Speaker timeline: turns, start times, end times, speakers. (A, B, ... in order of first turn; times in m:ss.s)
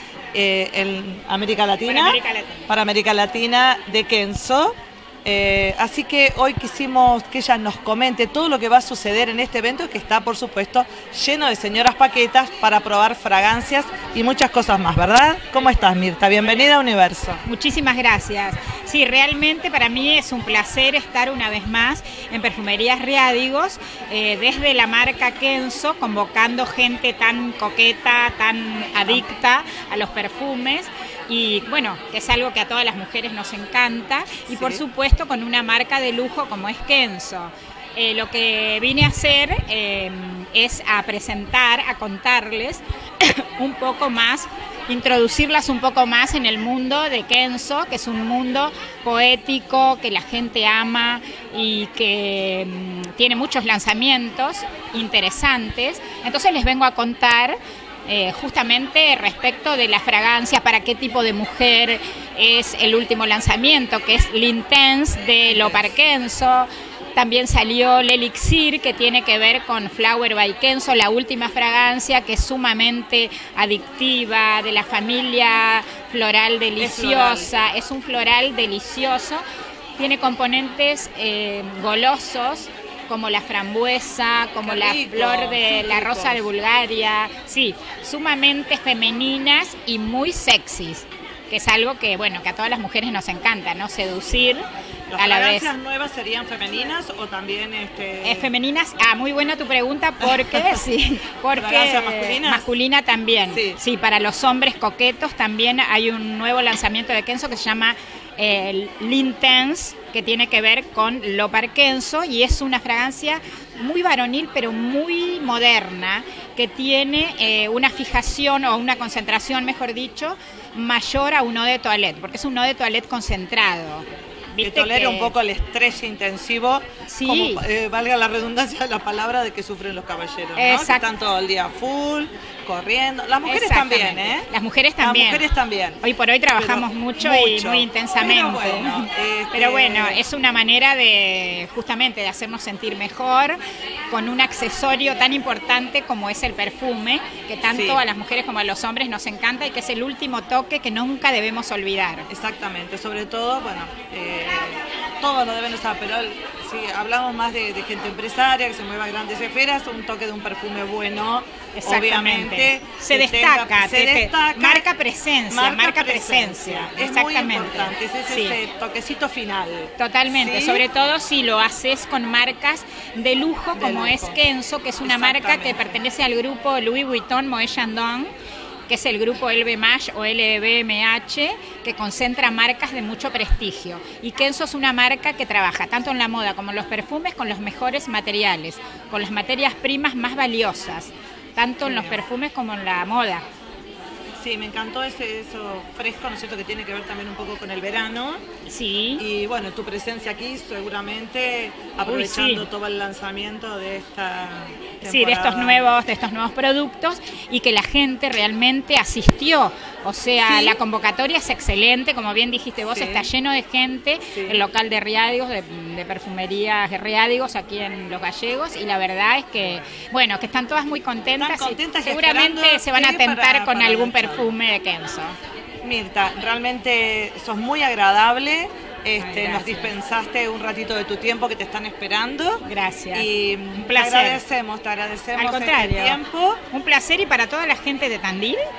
0:00.3-0:02.2 A
0:01.9-0:02.7 B
0:02.7-0:17.4 A
0:17.4-1:19.4 B
0:29.0-0:29.2 A
0:34.5-0:34.8 A
1:05.5-1:05.9 A
1:16.8-1:17.5 A
1:20.0-1:34.7 B
1:24.6-1:26.5 A
1:35.1-1:38.5 A
1:35.2-1:35.7 B
1:38.2-2:05.3 B
1:40.2-1:40.8 A
1:41.5-1:42.7 A
1:43.5-1:43.8 A
2:04.6-2:14.5 A
2:07.1-2:07.6 B
2:10.6-2:11.1 B
2:13.5-2:15.4 B
2:15.0-2:16.0 A
2:16.0-2:23.6 B
2:16.6-2:20.2 A
2:24.1-2:32.3 B
2:27.6-2:28.0 A
2:32.3-2:44.9 A
2:41.8-2:48.6 B
2:45.5-2:50.8 A
2:50.0-2:58.3 B
2:53.7-2:54.4 A
2:55.0-2:56.0 A
2:58.9-3:13.4 B
3:11.8-3:12.2 A
3:14.4-3:18.4 A
3:18.7-3:19.2 B
3:19.2-3:25.9 A
3:22.1-3:22.7 B
3:25.0-3:45.4 B
3:30.4-3:30.8 A
3:32.9-3:33.3 A
3:34.3-3:34.7 A
3:39.6-3:39.8 A
3:41.4-3:44.5 A
3:45.8-3:56.6 A
3:49.2-3:49.9 B
3:52.6-3:54.4 B
3:55.4-3:56.2 B
3:56.7-3:58.6 B